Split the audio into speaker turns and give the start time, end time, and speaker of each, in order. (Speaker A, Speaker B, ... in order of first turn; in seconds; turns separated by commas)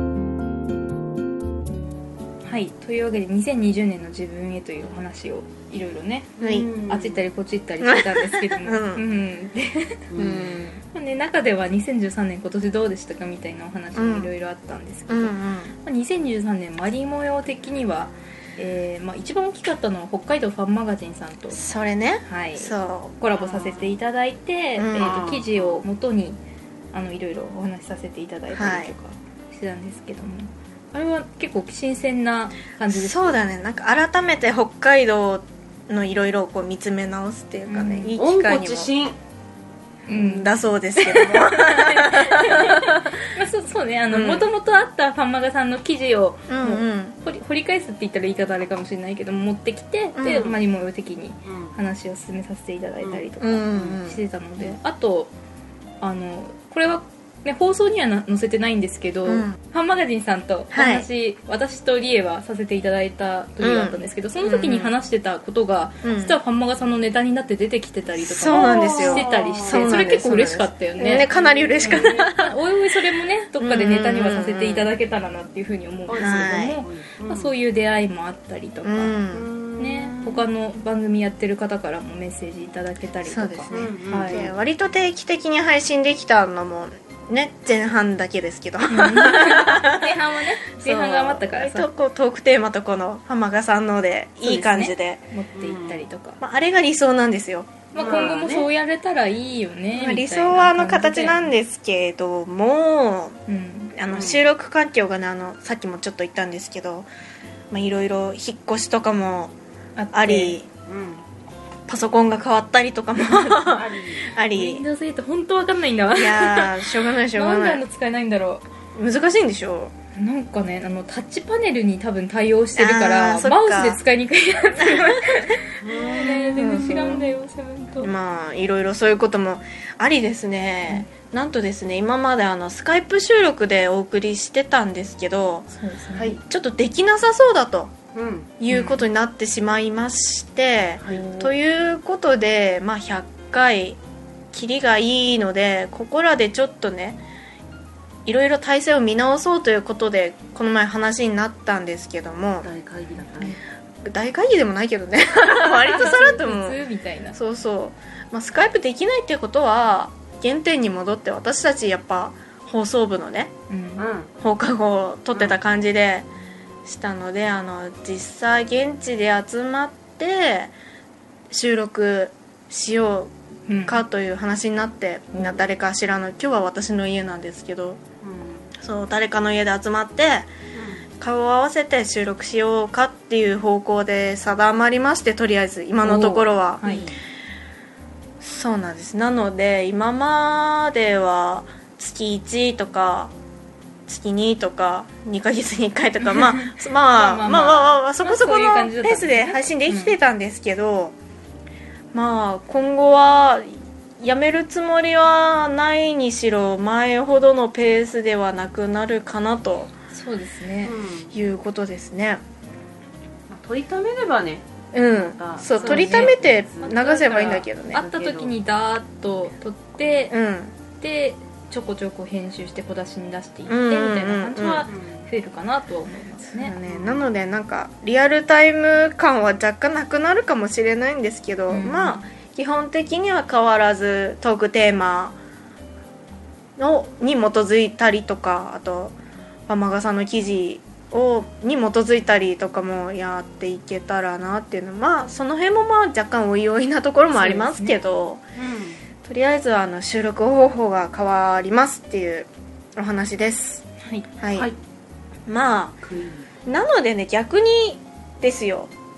Speaker A: 2.4-10.0, Speaker B: 6.4-6.7, Speaker C: 6.4-7.2, Speaker B: 7.8-9.0, Speaker C: 10.1-10.6, Speaker B: 10.2-10.8, Speaker A: 10.9-21.6, Speaker B: 13.9-14.3, Speaker B: 15.1-15.8, Speaker B: 21.5-23.1, Speaker A: 22.3-26.4, Speaker C: 23.4-23.9, Speaker B: 24.8-25.3, Speaker C: 24.9-25.8, Speaker A: 26.9-33.4, Speaker B: 28.5-28.9, Speaker B: 32.9-38.9, Speaker A: 37.7-38.2, Speaker C: 38.2-39.2, Speaker A: 40.1-55.3, Speaker B: 40.1-43.1, Speaker B: 44.1-44.5, Speaker B: 46.5-47.2, Speaker B: 50.2-50.5, Speaker C: 50.3-50.6, Speaker C: 51.5-51.8, Speaker C: 53.0-54.0, Speaker B: 53.4-54.2, Speaker A: 56.0-79.2, Speaker B: 59.3-59.6, Speaker B: 60.7-61.1, Speaker B: 63.6-64.9, Speaker B: 66.0-66.4, Speaker B: 68.2-72.5, Speaker C: 68.5-70.1, Speaker C: 71.3-72.1, Speaker B: 73.6-74.9, Speaker C: 76.1-77.5, Speaker B: 76.2-76.8, Speaker B: 78.8-79.5, Speaker C: 79.3-80.5, Speaker A: 79.8-84.4, Speaker B: 83.2-90.1, Speaker C: 83.7-84.5, Speaker A: 88.9-91.9, Speaker B: 90.8-95.2, Speaker A: 94.4-96.4, Speaker C: 95.5-96.0, Speaker B: 96.4-98.3, Speaker A: 97.9-101.5, Speaker C: 98.0-98.7, Speaker B: 99.9-103.4, Speaker A: 103.5-104.0, Speaker B: 103.9-107.1, Speaker C: 104.1-104.5, Speaker B: 107.7-109.5, Speaker A: 110.0-110.6, Speaker B: 110.1-110.7, Speaker C: 110.9-111.2, Speaker B: 111.9-114.8, Speaker C: 113.6-114.3, Speaker A: 114.5-118.7, Speaker B: 116.2-117.8, Speaker B: 119.0-119.9, Speaker A: 120.2-128.1, Speaker B: 122.8-124.0, Speaker B: 124.8-125.5, Speaker C: 125.8-126.7, Speaker B: 126.1-127.3, Speaker B: 128.0-135.7, Speaker A: 135.7-136.4, Speaker B: 136.4-137.9, Speaker C: 138.1-138.6, Speaker B: 138.6-144.0, Speaker A: 138.7-139.0, Speaker C: 141.0-141.4, Speaker A: 141.1-141.5, Speaker B: 144.5-147.2, Speaker B: 148.2-152.7, Speaker C: 152.6-153.6, Speaker B: 154.0-156.8, Speaker A: 155.6-157.4, Speaker B: 157.3-163.5, Speaker A: 163.7-164.1, Speaker C: 164.0-164.3, Speaker B: 164.4-166.3, Speaker B: 166.8-170.7, Speaker B: 171.5-173.3, Speaker A: 173.7-174.1, Speaker B: 173.9-178.0, Speaker C: 178.2-178.7, Speaker B: 178.8-180.5, Speaker C: 180.7-181.1, Speaker B: 181.2-187.1, Speaker A: 186.0-187.1, Speaker C: 186.9-187.2, Speaker B: 188.4-193.3, Speaker B: 194.1-201.2, Speaker A: 196.2-200.2, Speaker B: 202.1-209.9, Speaker A: 210.1-210.9, Speaker C: 210.8-211.3, Speaker B: 211.3-212.4, Speaker C: 213.5-218.5, Speaker B: 214.9-218.0, Speaker A: 215.8-220.3, Speaker B: 220.3-220.8, Speaker A: 221.0-226.8, Speaker B: 223.7-224.9, Speaker C: 224.9-225.3, Speaker B: 226.5-235.4, Speaker C: 226.9-227.3, Speaker A: 231.7-232.3, Speaker B: 236.8-239.2, Speaker B: 239.7-248.4, Speaker A: 247.3-248.0, Speaker C: 248.6-249.0, Speaker B: 249.2-253.8, Speaker B: 254.4-254.7, Speaker B: 255.5-256.0, Speaker C: 256.0-256.5, Speaker B: 256.6-258.9